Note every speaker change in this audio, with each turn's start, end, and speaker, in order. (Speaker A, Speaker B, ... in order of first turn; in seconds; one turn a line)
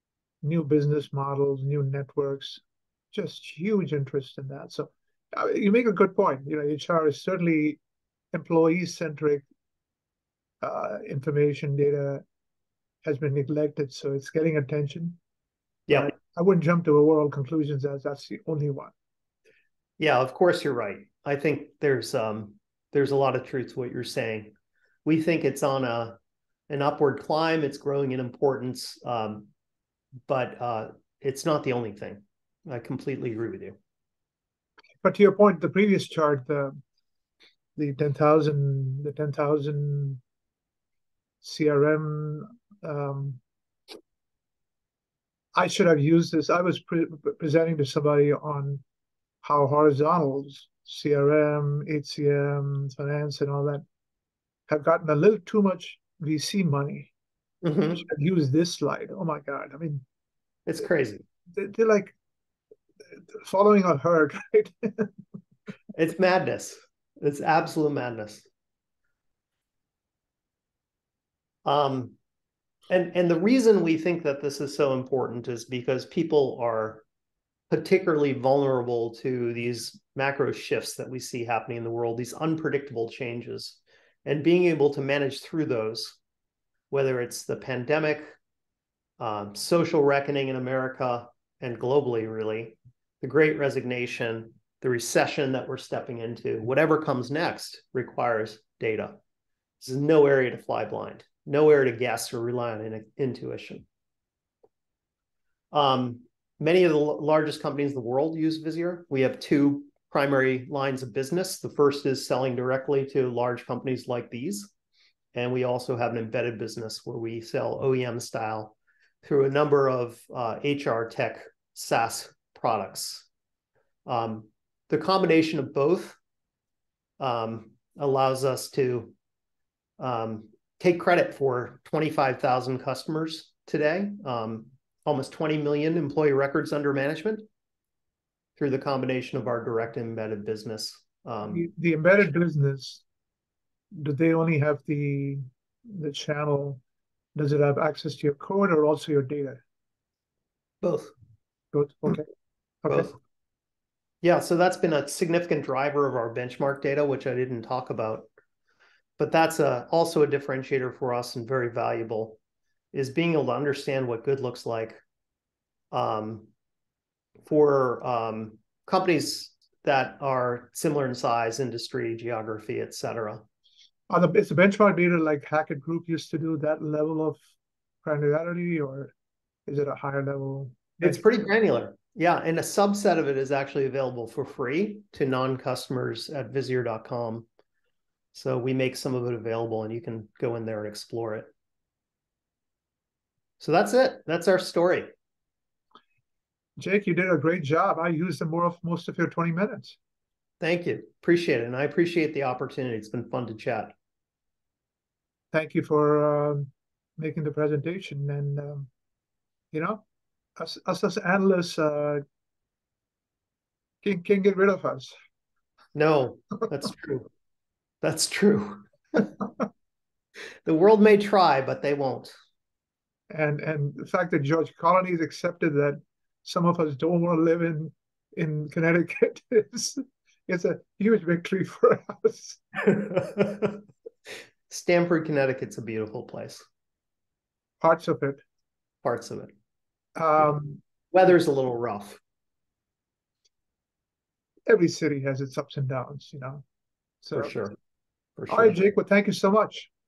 Speaker A: 0.4-7.8
Speaker A: 8.3-9.4
Speaker A: 10.6-12.2
Speaker A: 13.0-15.2
Speaker B: 15.9-16.1
Speaker A: 15.9-18.9
Speaker B: 20.0-24.5
Speaker B: 25.0-26.2
Speaker B: 26.7-29.5
Speaker B: 30.3-33.8
Speaker A: 35.0-36.8
Speaker A: 37.8-40.2
Speaker A: 41.4-43.4
Speaker A: 45.5-48.8
Speaker A: 49.4-53.8
Speaker A: 54.7-57.1
Speaker B: 57.6-58.0
Speaker A: 57.9-60.0
Speaker B: 60.6-61.2
Speaker A: 61.5-62.1
Speaker A: 63.1-65.1
Speaker B: 65.9-68.5
Speaker B: 71.6-72.2
Speaker B: 72.9-77.0
Speaker B: 77.7-86.2
Speaker B: 86.9-88.3
Speaker B: 89.2-99.2
Speaker B: 99.8-103.8
Speaker B: 105.7-114.7
Speaker B: 115.3-123.3
Speaker B: 124.0-126.2
Speaker B: 127.2-129.1
Speaker B: 130.0-137.4
Speaker B: 138.6-141.7
Speaker A: 141.5-143.0
Speaker A: 143.9-146.8
Speaker A: 147.3-149.6
Speaker B: 150.8-151.1
Speaker A: 151.7-152.2
Speaker A: 152.8-153.1
Speaker B: 152.9-153.1
Speaker B: 154.2-158.3
Speaker B: 159.2-162.4
Speaker B: 162.9-165.0
Speaker B: 165.9-166.5
Speaker B: 167.4-173.4
Speaker A: 174.1-177.4
Speaker A: 178.0-179.1
Speaker A: 179.7-181.2
Speaker B: 181.0-187.4
Speaker B: 188.3-191.5
Speaker B: 193.6-195.1
Speaker A: 196.8-200.0
Speaker B: 200.6-203.9
Speaker A: 205.5-208.9
Speaker A: 209.7-210.0
Speaker A: 210.6-212.2
Speaker A: 214.0-215.1
Speaker B: 215.9-217.3
Speaker B: 218.0-219.4
Speaker B: 220.6-222.3
Speaker A: 223.3-232.6
Speaker B: 232.8-233.8
Speaker B: 234.7-236.7
Speaker A: 237.8-238.4
Speaker B: 239.0-239.5
Speaker A: 240.2-240.8
Speaker B: 241.1-242.2
Speaker A: 244.7-246.6
Speaker A: 247.2-247.5
Speaker B: 247.3-247.7
Speaker B: 248.4-248.8
Speaker A: 248.5-249.9